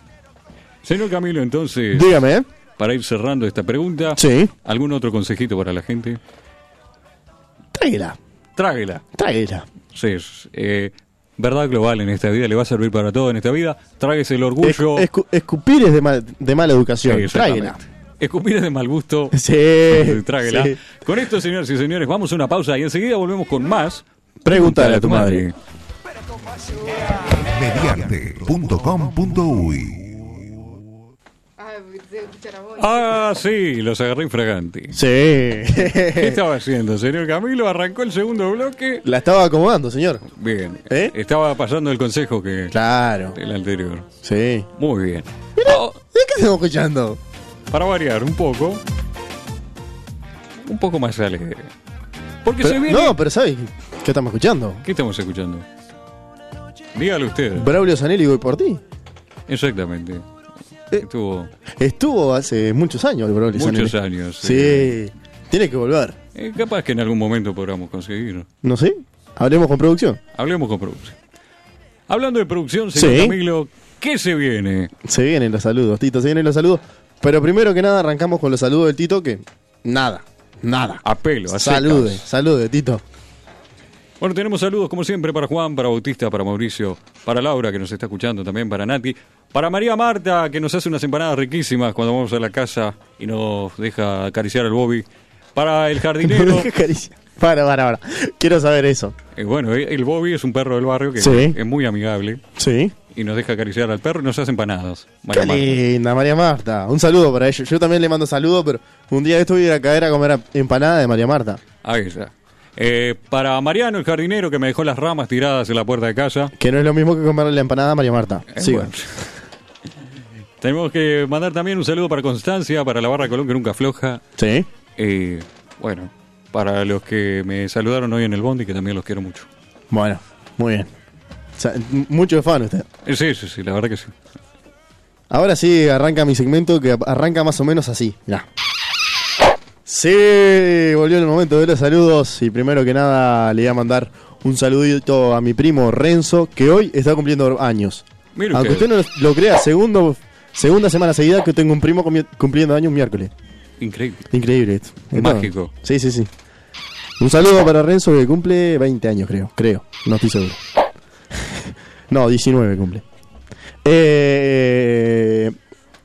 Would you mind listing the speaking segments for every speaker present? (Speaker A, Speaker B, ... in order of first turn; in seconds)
Speaker A: 0.8-2.1, 2.8-6.2, 8.6-9.0, 9.9-15.1, 17.1-25.6, 32.6-35.0, 35.9-39.0, 40.3-42.8, 43.3-44.1, 44.8-46.0, 47.7-48.8, 50.6-51.7, 52.4-53.2, 54.8-55.7, 56.9-57.7, 59.5-60.3, 60.9-61.5, 63.5-65.0, 66.3-68.5, 70.3-71.2, 72.1-74.9, 81.0-82.2, 84.2-96.7, 99.3-102.4, 103.1-105.8, 111.8-116.5, 118.5-119.3, 120.6-124.2, 125.0-129.5, 133.1-134.2, 148.4-148.9, 153.8-154.3, 155.1-155.7
Speaker B: 1.9-2.5, 4.2-4.5, 7.7-8.2, 9.2-9.7, 14.6-17.8, 19.3-20.8, 24.4-25.5, 34.9-36.4, 39.0-40.2, 40.9-41.1, 42.7-43.4, 44.2-44.7, 45.6-47.2, 52.6-54.8, 57.6-58.8, 61.8-66.2, 68.6-70.2, 73.0-73.4, 75.0-83.0, 96.2-99.2, 101.2-101.6, 102.6-102.9, 105.3-111.6, 116.6-118.9, 124.4-124.7, 129.9-130.9, 131.6-132.9, 135.3-138.5, 139.9-153.3, 154.3-156.3, 157.2-160.6, 161.3-163.0, 163.8-165.6
Speaker C: 27.4-30.5